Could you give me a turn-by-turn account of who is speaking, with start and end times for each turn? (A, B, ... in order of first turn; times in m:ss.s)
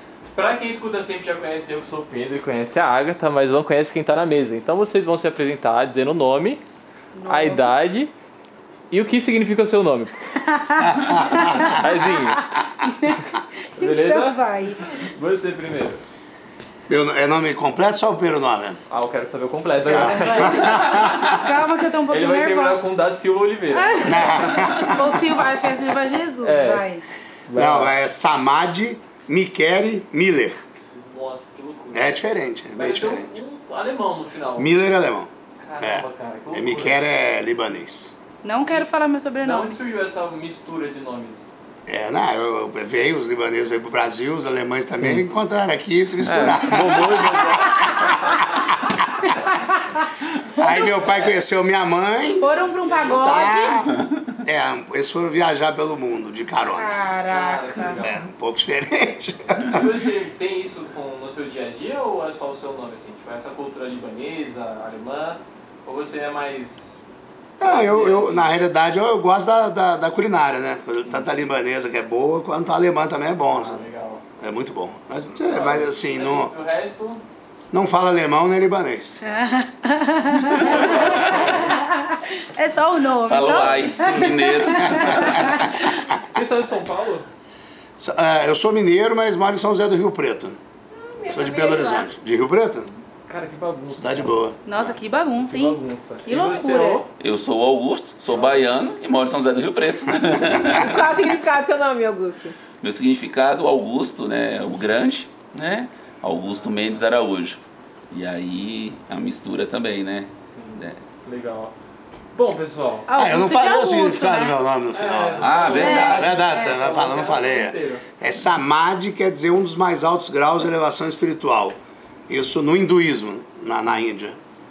0:00.3-0:06.6 A
0:07.1-0:07.7 B
0:07.3-0:08.1 A
0:08.9-0:10.1 A
0:10.5-0:11.7 B
0:10.8-0:11.7 C
0:11.6-0:12.4 A
0:12.4-0:13.2 B
0:13.8-0:14.8 B
0:13.8-0:16.0 A
0:16.9-0:18.8 C
0:18.9-0:21.4 A
0:19.8-0:21.4 C
0:20.1-0:22.8 B
0:22.1-0:24.2 A
0:23.7-0:27.0 B
0:24.0-0:25.4 C
0:26.4-0:26.8 A
0:27.5-0:28.0 A
0:27.5-0:30.6 C
0:30.9-0:32.2 A
0:31.9-0:33.4 C
0:32.8-0:34.8 A
0:34.6-0:35.3 C
0:35.6-0:37.0 A
0:35.8-0:38.1 C
0:38.4-0:39.7 B
0:39.4-0:41.5 A
0:41.9-0:48.5 C
0:45.0-0:45.2 A
0:46.2-0:48.5 A
0:50.6-0:52.5 C
0:51.1-0:51.3 A
0:52.4-0:53.8 B
0:52.8-0:53.5 A
0:53.1-0:53.9 C
0:54.4-0:57.0 C
0:56.7-0:58.0 B
0:57.3-0:58.2 A
0:57.9-0:59.8 C
0:59.6-1:07.0 A
1:07.6-1:08.6 A
1:07.6-1:13.9 C
1:13.4-1:14.2 A
1:14.4-1:16.5 C
1:15.4-1:17.2 A
1:17.7-1:19.2 C
1:19.3-1:20.8 B
1:20.6-1:21.8 A
1:21.7-1:25.8 B
1:23.2-1:25.1 D
1:23.5-1:25.6 A
1:24.9-1:25.6 C
1:26.2-1:27.3 A
1:28.0-1:30.6 C
1:30.9-1:32.1 E
1:31.3-1:32.9 C
1:33.3-1:34.4 A
1:33.9-1:35.0 C
1:34.7-1:35.8 B
1:35.4-1:37.1 A
1:36.3-1:37.0 B
1:37.2-1:41.0 D
1:38.3-1:38.9 A
1:40.5-1:42.6 E
1:42.8-1:47.6 D
1:46.4-1:47.0 A
1:48.1-1:51.0 D
1:50.4-1:51.7 A
1:52.3-1:53.1 A
1:53.1-1:54.6 B
1:53.2-2:01.8 C
1:54.9-1:58.0 A
1:55.4-1:56.3 D
1:55.8-1:56.7 B
2:02.3-2:04.4 C